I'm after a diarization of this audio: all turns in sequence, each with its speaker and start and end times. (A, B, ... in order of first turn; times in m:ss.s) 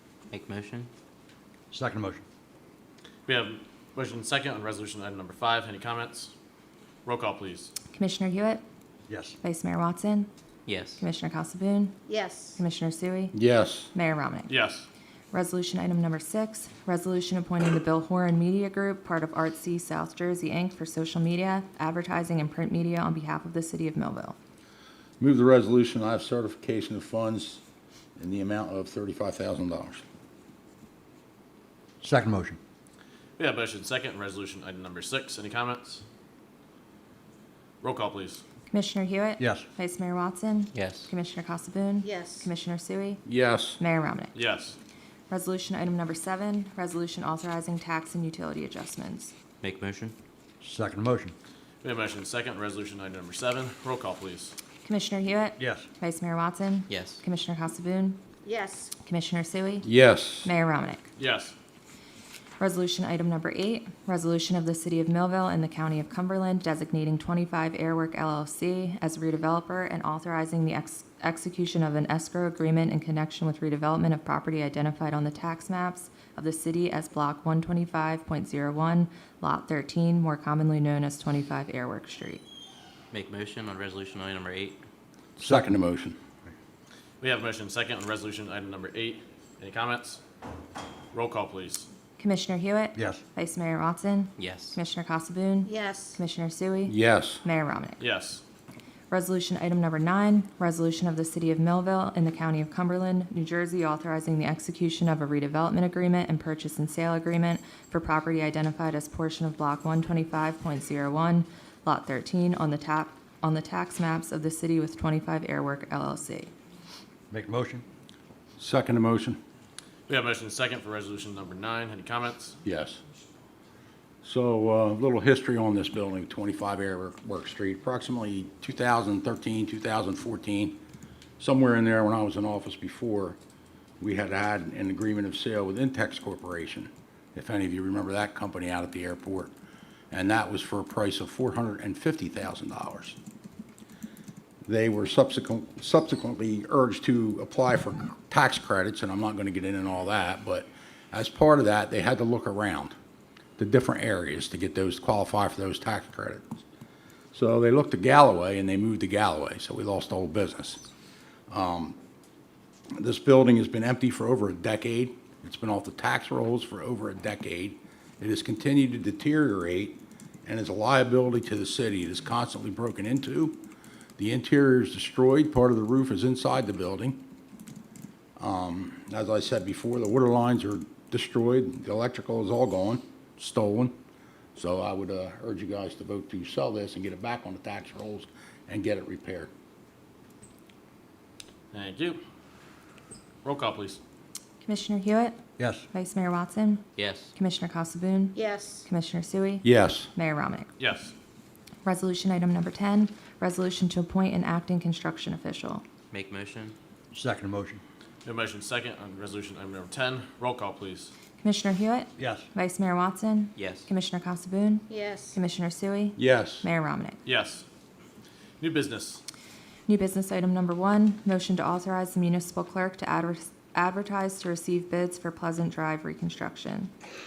0:00.3-0:00.9 A
0:01.7-0:02.2 B
0:03.3-0:06.3 C
0:07.0-0:07.7 C
0:07.9-0:08.6 D
0:09.4-0:10.3 D
0:10.7-0:11.0 A
0:11.0-0:12.0 D
0:12.1-0:12.6 E
0:12.6-0:13.4 D
0:13.3-0:13.9 F
0:13.9-0:14.5 D
0:14.5-0:14.9 C
0:15.3-0:24.4 D
0:25.2-0:27.6 F
0:28.2-0:30.0 F
0:32.0-0:32.5 B
0:33.4-0:36.0 C
0:37.8-0:38.4 C
0:38.7-0:43.2 D
0:40.7-0:41.1 A
0:42.0-0:42.5 E
0:43.3-0:43.8 F
0:43.8-0:44.3 D
0:44.4-0:44.8 C
0:45.3-0:49.4 D
0:49.6-0:50.2 A
0:50.7-0:51.3 B
0:51.8-0:54.6 C
0:54.8-0:58.2 D
0:56.9-0:57.2 A
0:58.4-0:58.9 E
0:59.0-0:59.9 D
0:59.8-1:00.5 F
1:00.4-1:01.1 D
1:01.2-1:01.5 C
1:02.6-1:22.4 D
1:23.1-1:24.8 A
1:25.4-1:26.2 F
1:27.2-1:30.2 C
1:31.1-1:31.9 C
1:32.2-1:38.0 D
1:34.4-1:34.8 A
1:35.6-1:36.2 E
1:36.9-1:37.4 F
1:38.0-1:38.4 C
1:39.1-1:56.5 D
1:57.3-1:57.8 B
1:58.6-1:59.4 F
2:00.1-2:02.6 C
2:02.6-2:03.0 F
2:04.2-2:10.8 F
2:11.4-2:13.4 F
2:14.0-2:19.5 F
2:20.1-2:23.2 F
2:24.7-2:33.0 F
2:33.6-2:36.4 F
2:37.3-2:40.8 F
2:41.5-2:42.0 F
2:43.0-2:53.6 F
2:54.2-2:57.2 F
2:58.4-3:03.9 F
3:04.6-3:09.5 F
3:11.7-3:12.2 C
3:13.4-3:14.0 C
3:14.6-3:15.4 D
3:15.6-3:15.8 B
3:15.9-3:20.7 D
3:17.0-3:17.3 A
3:18.4-3:18.9 E
3:19.6-3:20.1 F
3:20.8-3:21.1 C
3:21.8-3:25.8 D
3:26.1-3:26.8 A
3:27.2-3:27.8 B
3:28.2-3:31.1 C
3:31.4-3:37.2 D
3:33.6-3:33.9 A
3:34.9-3:35.4 E
3:36.2-3:36.7 F
3:37.3-3:37.6 C
3:38.6-3:39.2 C
3:39.9-3:46.9 D